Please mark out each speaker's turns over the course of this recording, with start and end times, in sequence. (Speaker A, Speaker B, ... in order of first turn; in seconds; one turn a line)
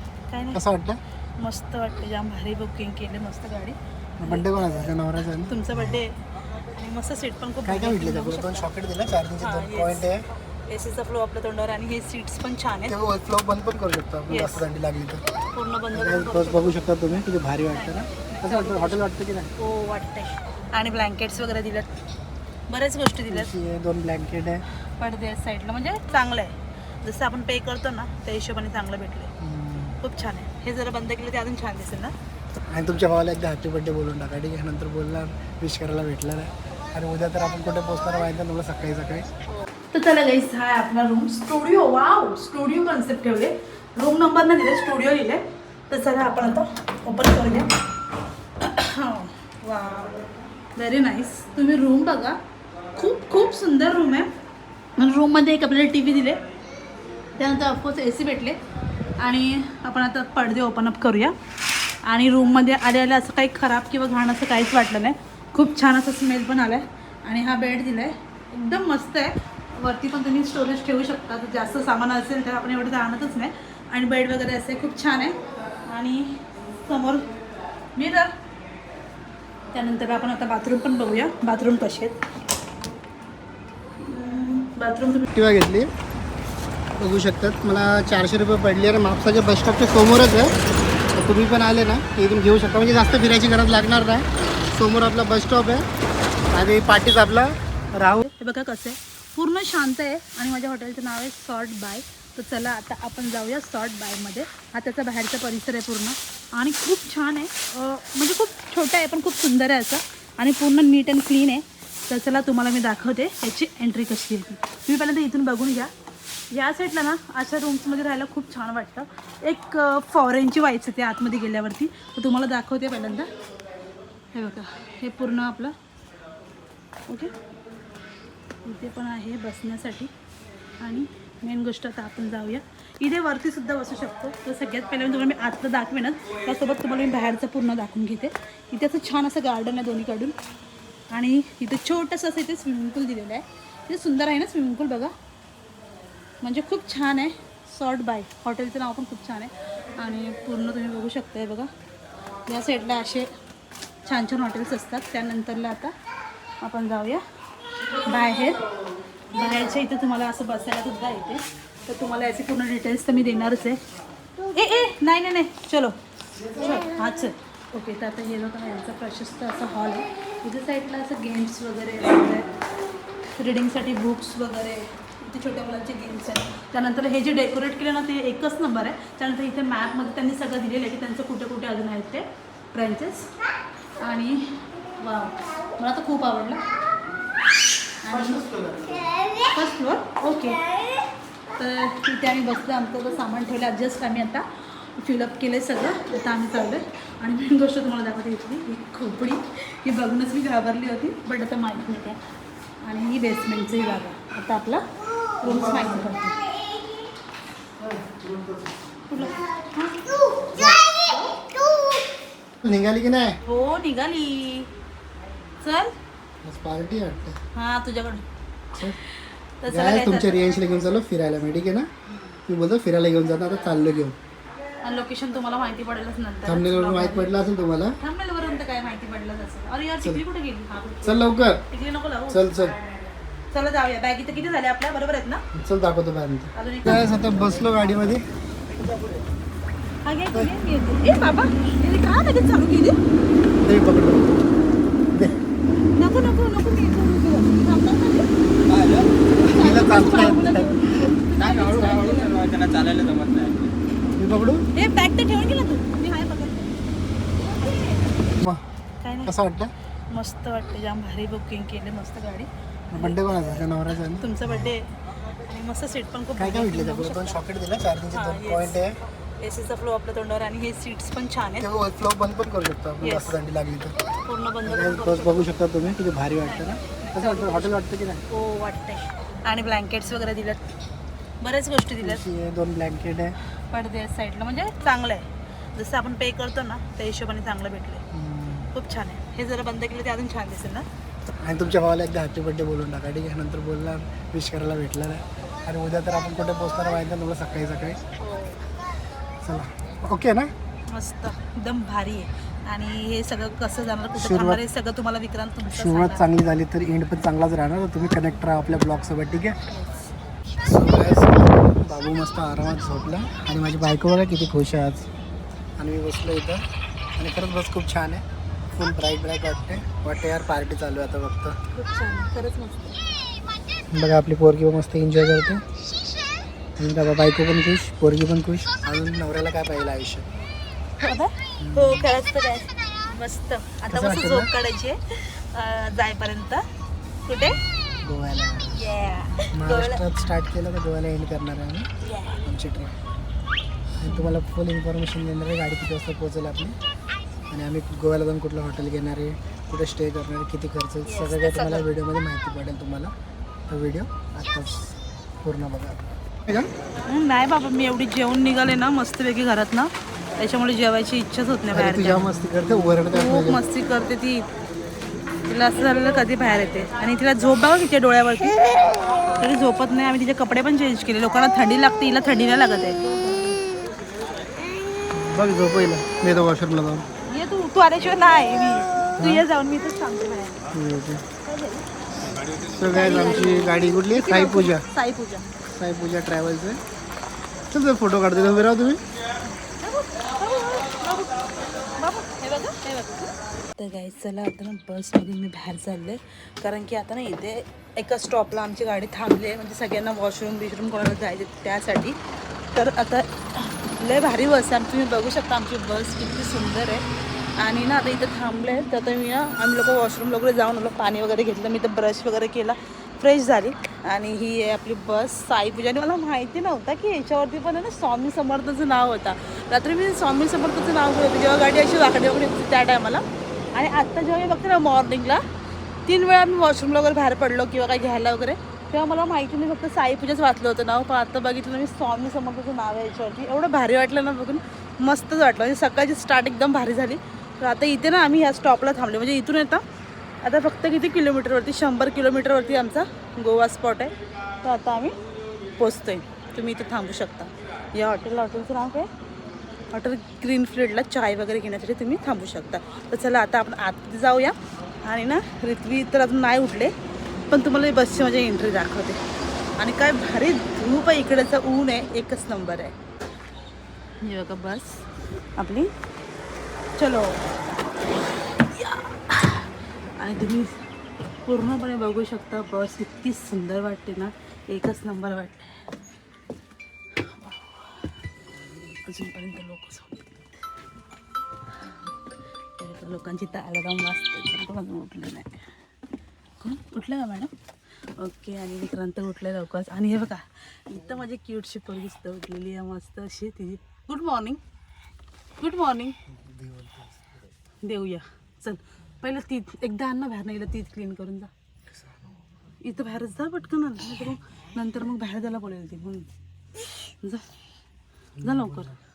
Speaker A: 0.3-0.6
Speaker B: 0.5-1.0
Speaker A: 1.4-4.5
Speaker B: 4.2-6.0
Speaker A: 5.4-6.2
Speaker A: 6.7-8.7
Speaker B: 7.6-10.2
Speaker A: 9.4-12.9
Speaker B: 12.9-15.2
Speaker A: 14.3-14.6
Speaker A: 15.5-17.2
Speaker B: 15.9-19.5
Speaker A: 17.7-19.0
Speaker A: 19.6-21.9
Speaker A: 22.7-23.5
Speaker B: 23.3-24.6
Speaker A: 25.0-29.3
Speaker B: 29.4-30.0
Speaker A: 30.0-32.1
Speaker B: 32.7-39.3
Speaker A: 39.6-47.7
Speaker A: 48.6-52.4
Speaker A: 53.0-54.3
Speaker A: 55.0-56.4
Speaker A: 57.4-58.6
Speaker A: 59.2-61.3
Speaker A: 62.0-75.3
Speaker A: 75.9-77.3
Speaker A: 77.9-78.3
Speaker A: 79.7-82.2
Speaker A: 84.0-85.2
Speaker B: 85.3-85.9
Speaker B: 87.0-90.5
Speaker B: 91.1-95.8
Speaker B: 96.5-98.2
Speaker A: 98.2-115.9
Speaker A: 116.5-123.3
Speaker A: 124.3-125.7
Speaker A: 128.6-130.1
Speaker A: 130.8-140.3
Speaker A: 141.1-145.1
Speaker A: 146.4-151.7
Speaker A: 152.5-153.3
Speaker A: 154.0-155.9
Speaker A: 156.6-157.2
Speaker A: 158.1-158.6
Speaker A: 159.3-163.8
Speaker A: 164.5-165.9
Speaker A: 166.6-172.5
Speaker A: 173.4-183.3
Speaker A: 184.0-186.6
Speaker A: 188.0-188.4
Speaker B: 188.1-189.2
Speaker A: 189.4-190.6
Speaker A: 191.6-202.2
Speaker A: 202.8-204.8
Speaker A: 205.4-206.4
Speaker B: 205.4-206.1
Speaker B: 207.8-209.3
Speaker A: 209.1-210.0
Speaker B: 210.5-210.8
Speaker A: 210.8-211.4
Speaker B: 212.6-213.4
Speaker A: 213.4-214.7
Speaker A: 215.6-215.9
Speaker B: 216.4-217.4
Speaker A: 217.5-218.2
Speaker A: 219.6-220.5
Speaker B: 219.7-221.9
Speaker B: 222.5-224.1
Speaker A: 224.8-227.3
Speaker B: 226.4-228.0
Speaker A: 228.0-232.5
Speaker B: 231.0-231.6
Speaker B: 232.3-232.8
Speaker A: 233.5-235.4
Speaker B: 235.5-238.2
Speaker A: 236.5-237.1
Speaker A: 240.0-242.9
Speaker B: 243.6-244.4
Speaker B: 245.1-245.4
Speaker A: 245.9-248.3
Speaker C: 248.8-249.1
Speaker B: 249.4-251.3
Speaker A: 249.4-252.4
Speaker C: 251.5-253.7
Speaker B: 254.2-254.6
Speaker A: 254.7-256.8
Speaker A: 257.4-258.3
Speaker B: 258.4-258.6
Speaker A: 259.0-259.3
Speaker B: 259.2-259.7
Speaker A: 260.1-263.2
Speaker B: 262.9-264.7
Speaker A: 264.1-264.9
Speaker A: 265.4-267.4
Speaker B: 266.4-268.9
Speaker A: 268.1-268.8
Speaker A: 269.4-271.7
Speaker B: 271.6-273.9
Speaker A: 273.0-273.4
Speaker A: 274.3-275.5
Speaker B: 274.6-278.2
Speaker A: 276.4-277.7
Speaker A: 278.3-280.6
Speaker A: 281.4-282.2
Speaker B: 282.0-283.4
Speaker A: 283.7-288.0
Speaker B: 288.1-288.7
Speaker A: 288.7-290.8
Speaker B: 291.4-298.0
Speaker A: 298.2-298.6
Speaker B: 299.4-300.5
Speaker A: 300.9-306.3
Speaker B: 304.1-304.6
Speaker B: 305.7-309.6
Speaker A: 309.7-310.1
Speaker B: 310.6-315.1
Speaker B: 315.8-316.6
Speaker B: 317.2-318.2
Speaker B: 318.8-321.5
Speaker A: 321.7-323.0
Speaker B: 323.9-325.6
Speaker B: 326.8-330.3
Speaker A: 331.0-336.6
Speaker B: 331.6-332.1
Speaker B: 333.9-334.5
Speaker A: 337.2-337.6
Speaker B: 338.0-338.7
Speaker A: 338.8-340.0
Speaker B: 339.5-341.9
Speaker A: 342.0-342.4
Speaker B: 342.4-343.0
Speaker B: 344.0-346.8
Speaker A: 344.0-344.3
Speaker B: 347.5-353.1
Speaker A: 351.0-351.9
Speaker B: 353.7-356.7
Speaker A: 357.1-362.3
Speaker B: 361.7-363.6
Speaker A: 363.1-364.5
Speaker A: 365.4-368.8
Speaker A: 369.3-373.8
Speaker B: 375.1-377.1
Speaker A: 377.3-380.6
Speaker B: 379.2-379.4
Speaker B: 380.7-381.2
Speaker A: 381.4-381.8
Speaker B: 382.7-384.9
Speaker A: 382.9-385.5
Speaker B: 385.6-386.8
Speaker B: 387.7-389.0
Speaker A: 389.4-402.1
Speaker A: 402.7-407.0
Speaker A: 407.6-425.4
Speaker A: 426.1-439.8
Speaker A: 440.4-445.2
Speaker A: 445.8-449.1
Speaker A: 449.9-456.9
Speaker A: 457.5-459.2
Speaker A: 459.8-462.9
Speaker A: 464.2-465.0
Speaker A: 465.6-465.9
Speaker A: 466.9-467.4
Speaker A: 468.6-470.8
Speaker A: 471.4-475.8
Speaker A: 477.2-478.1
Speaker A: 478.6-480.5
Speaker A: 481.8-482.1
Speaker A: 482.8-485.5
Speaker A: 486.6-487.5
Speaker A: 488.2-494.6
Speaker A: 495.6-496.1
Speaker B: 496.3-497.4
Speaker A: 497.8-501.5
Speaker A: 502.8-506.3
Speaker A: 506.8-507.4
Speaker A: 508.4-508.9
Speaker B: 508.4-508.9